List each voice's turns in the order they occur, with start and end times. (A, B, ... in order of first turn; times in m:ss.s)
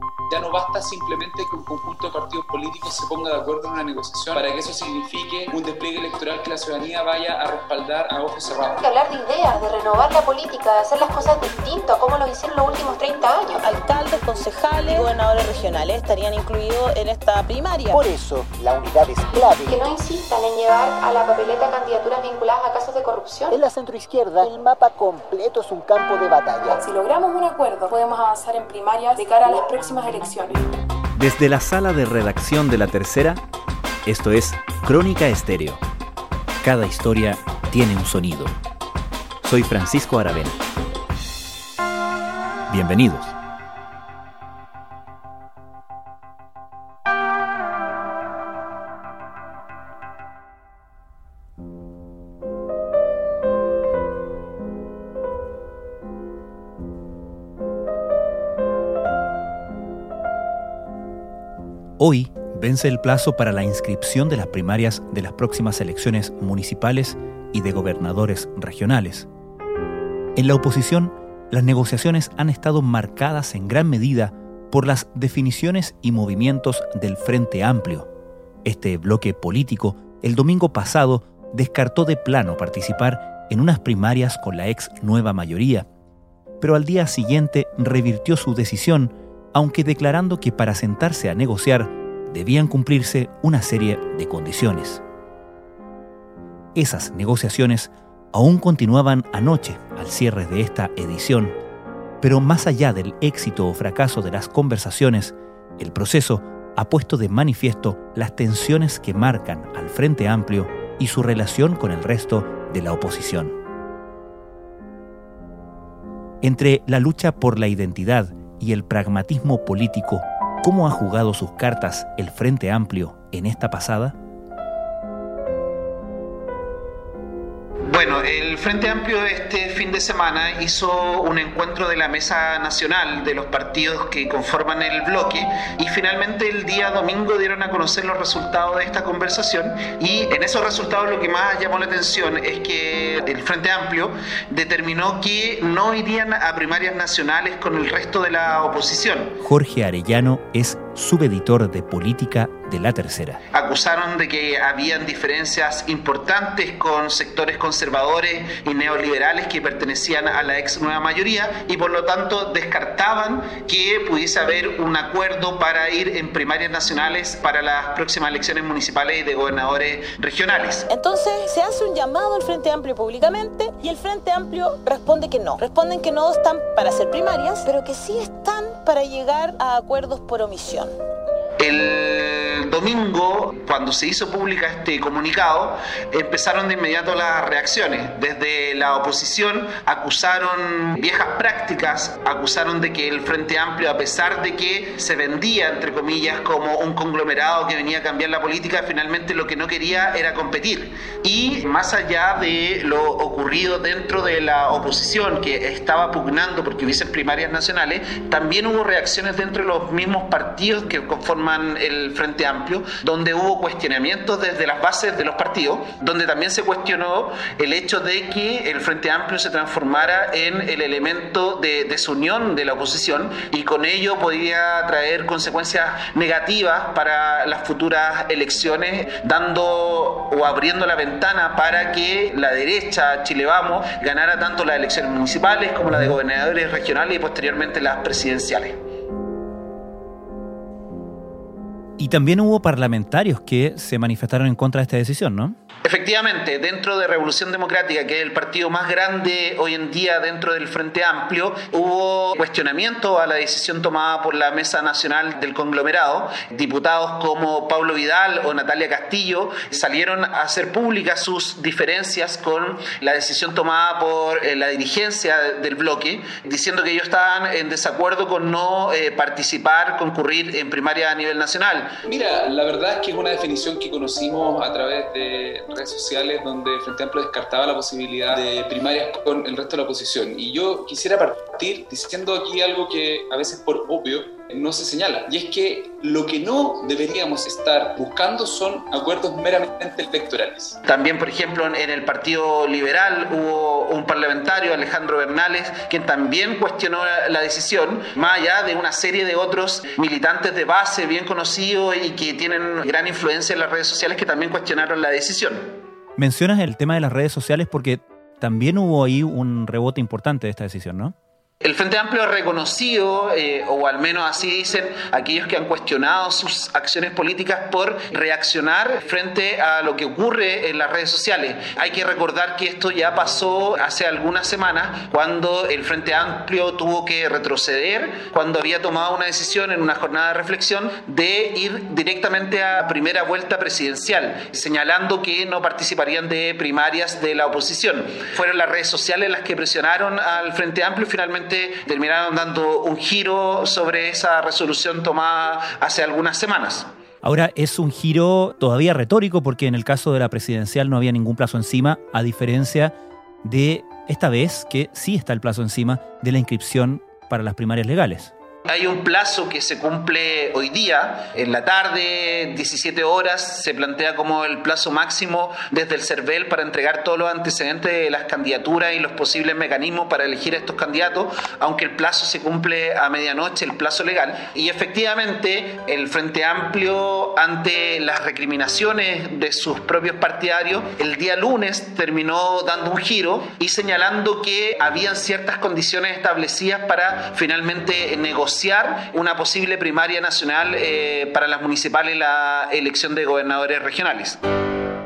0:00.3-0:08.8 A
0:08.7-0:13.8 B
0:13.6-0:18.0 C
0:17.9-0:19.8 D
0:19.7-0:23.6 B
0:23.5-0:26.9 D
0:26.7-0:30.6 E
0:31.2-0:33.4 F
0:34.1-0:35.8 F
0:36.6-0:38.6 F
0:39.4-0:40.6 F
0:42.7-0:43.3 F
1:02.0-1:09.3 F
1:10.4-1:18.1 F
1:18.6-1:25.9 F
1:26.6-1:35.0 F
1:36.8-1:41.6 F
1:42.2-1:53.6 F
1:56.4-2:04.2 F
2:07.8-2:29.4 G
2:29.4-2:33.4 F
2:33.5-2:50.9 G
2:50.9-3:01.0 C
3:01.6-3:58.8 G
4:02.0-4:05.6 F
4:05.8-4:32.0 G
4:32.1-4:50.8 A
4:50.8-5:05.8 G
5:06.2-5:11.1 F
5:11.6-5:46.9 G
5:47.2-5:58.3 F
5:58.7-6:34.4 G